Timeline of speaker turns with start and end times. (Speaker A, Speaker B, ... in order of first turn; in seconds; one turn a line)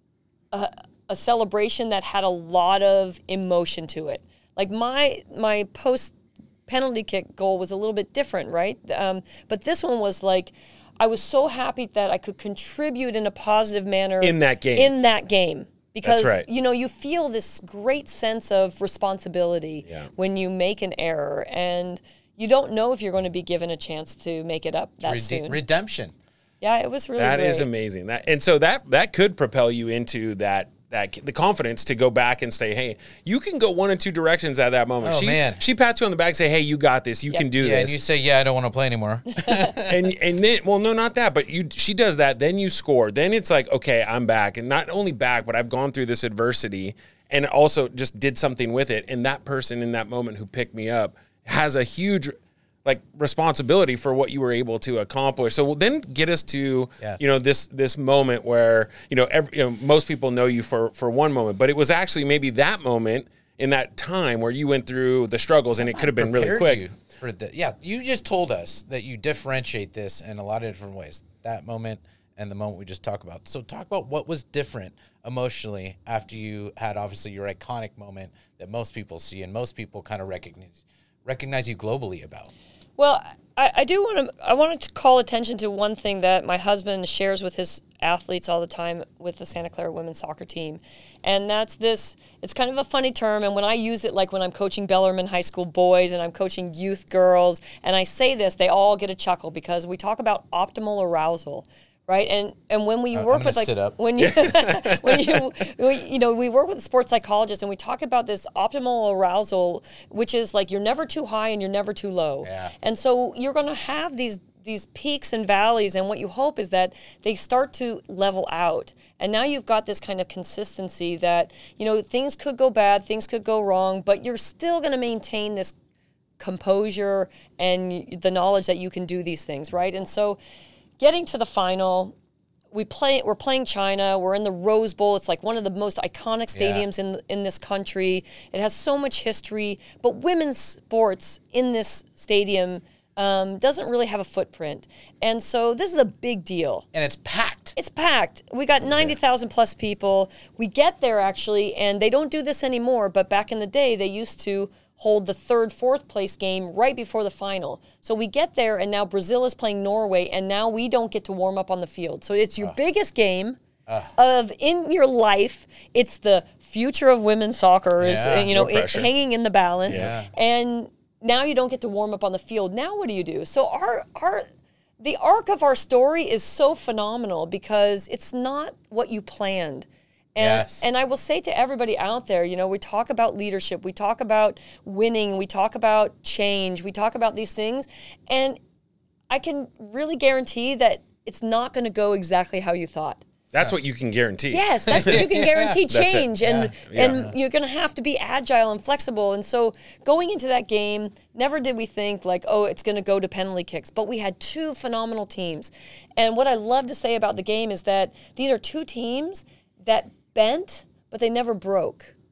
Speaker A: 0.5-6.1
Speaker A: 6.7-25.6
Speaker B: 14.2-14.9
Speaker B: 16.0-16.4
Speaker C: 25.0-26.1
Speaker A: 26.6-27.7
Speaker B: 27.2-38.0
Speaker C: 35.0-35.6
Speaker C: 37.6-40.1
Speaker A: 39.4-39.7
Speaker B: 39.8-66.8
Speaker C: 65.8-82.5
Speaker A: 83.0-125.7
Speaker C: 103.1-104.0
Speaker B: 104.2-105.4
Speaker C: 112.4-112.7
Speaker A: 126.4-130.4
Speaker A: 131.0-132.1
Speaker A: 132.7-146.8
Speaker C: 136.5-136.8
Speaker C: 146.9-147.7
Speaker A: 147.8-163.6
Speaker C: 163.9-164.1
Speaker A: 164.1-174.4
Speaker C: 168.0-168.5
Speaker B: 168.5-169.1
Speaker C: 169.9-170.3
Speaker A: 175.0-188.6
Speaker C: 180.4-180.8
Speaker A: 189.3-193.2
Speaker B: 193.5-195.3
Speaker A: 194.5-212.1
Speaker C: 194.9-195.8
Speaker B: 195.9-196.3
Speaker C: 196.4-197.3
Speaker B: 196.8-197.2